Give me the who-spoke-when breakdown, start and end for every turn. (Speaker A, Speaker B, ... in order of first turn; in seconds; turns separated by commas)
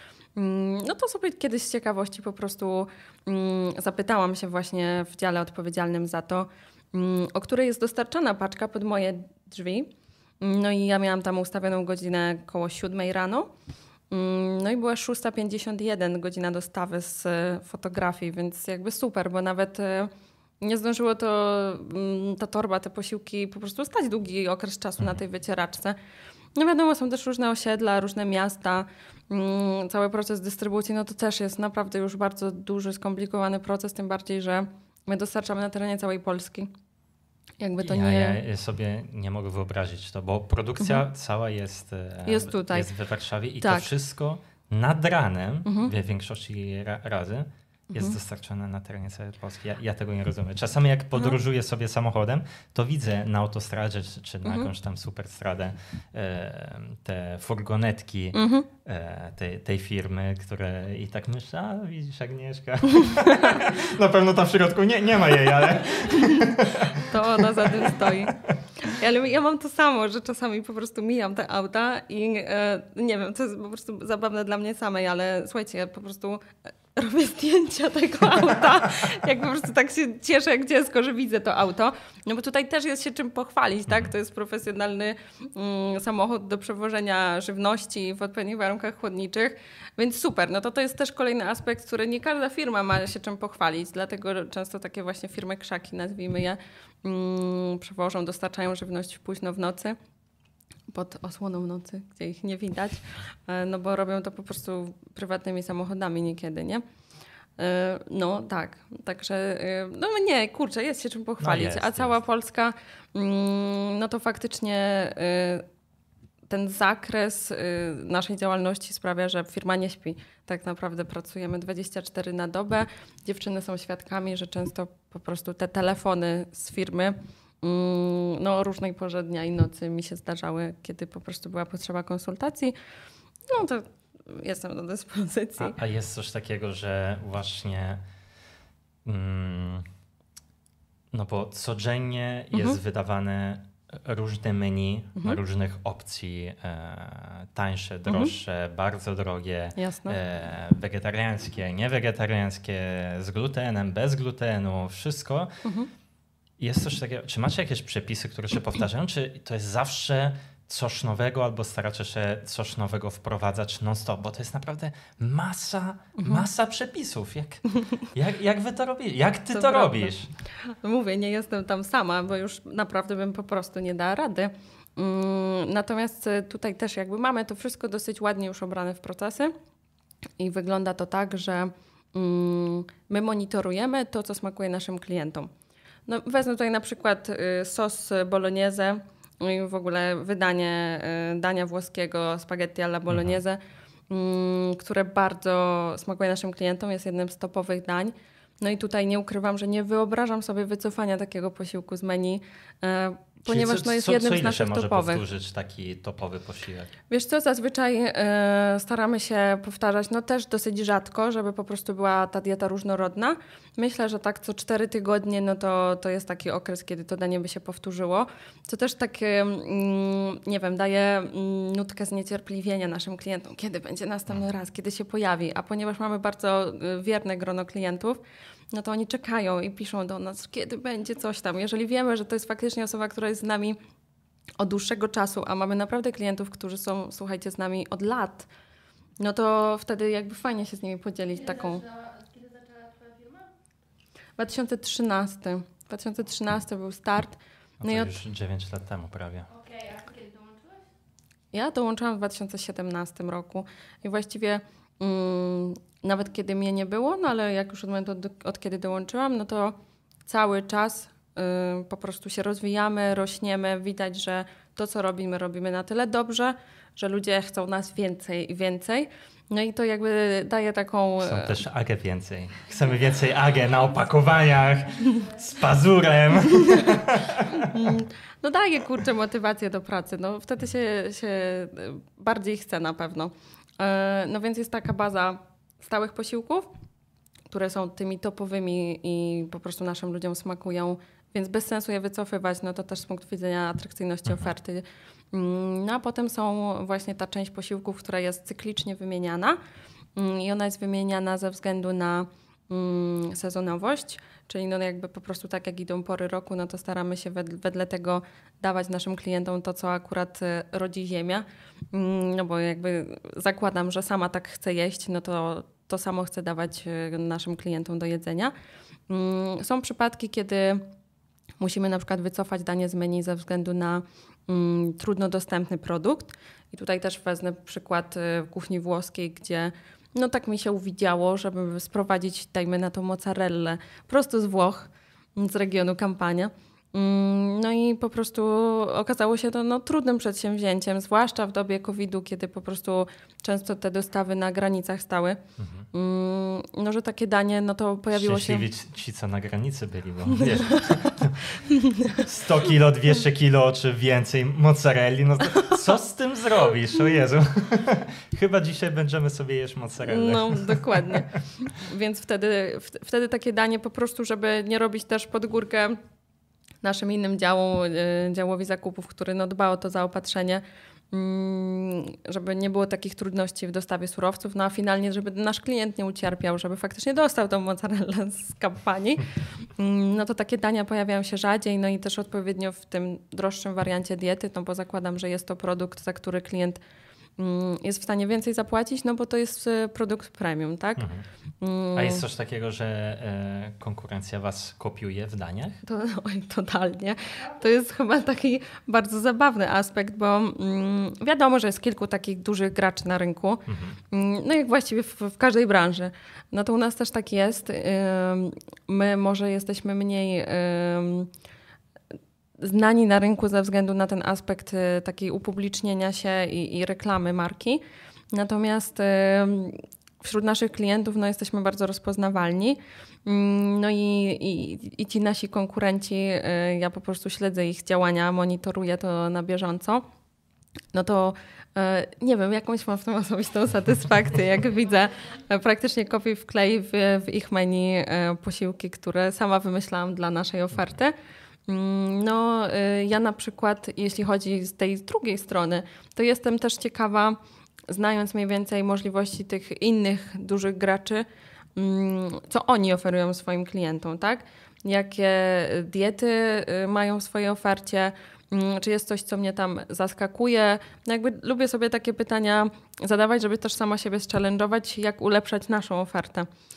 Speaker A: 0.3-13.5, Speaker A: 14.1-25.9, Speaker A: 26.6-36.7, Speaker A: 37.6-38.4, Speaker B: 37.8-68.3, Speaker A: 42.2-42.9, Speaker A: 43.6-43.9, Speaker A: 45.6-45.9, Speaker A: 47.9-48.2, Speaker A: 54.4-54.7, Speaker A: 58.3-58.7, Speaker A: 66.1-100.0, Speaker A: 100.9-106.8, Speaker A: 107.6-115.6, Speaker B: 111.4-112.2, Speaker A: 116.5-132.7, Speaker A: 133.5-135.8, Speaker B: 135.6-138.0, Speaker B: 139.0-139.8, Speaker B: 141.1-155.5, Speaker A: 142.5-142.8, Speaker A: 148.1-148.3, Speaker A: 149.8-150.2, Speaker A: 155.6-155.9, Speaker B: 156.6-170.3, Speaker A: 166.2-166.4, Speaker A: 169.5-179.5, Speaker A: 180.4-185.5, Speaker A: 186.1-205.2, Speaker B: 193.1-193.3, Speaker B: 203.4-206.9, Speaker A: 207.1-233.8, Speaker A: 234.6-238.5, Speaker A: 239.2-241.8, Speaker C: 241.3-243.5, Speaker A: 244.4-248.1, Speaker B: 247.8-249.5, Speaker C: 249.5-250.8, Speaker A: 251.5-271.6, Speaker B: 271.2-277.7, Speaker A: 276.6-276.9, Speaker A: 277.6-286.7, Speaker A: 287.5-299.6, Speaker A: 300.1-318.5, Speaker A: 319.1-320.9, Speaker A: 321.6-345.4, Speaker B: 345.6-345.9, Speaker A: 345.9-348.7, Speaker B: 348.1-351.6, Speaker A: 350.3-351.1, Speaker A: 351.6-352.2, Speaker B: 352.2-361.4, Speaker A: 360.1-366.0, Speaker A: 366.8-386.8, Speaker A: 387.4-391.1, Speaker B: 391.0-391.2, Speaker A: 391.6-392.2, Speaker B: 391.9-395.8, Speaker A: 395.8-411.3, Speaker B: 403.7-404.0, Speaker A: 412.6-430.0, Speaker A: 430.9-441.1, Speaker A: 441.7-466.5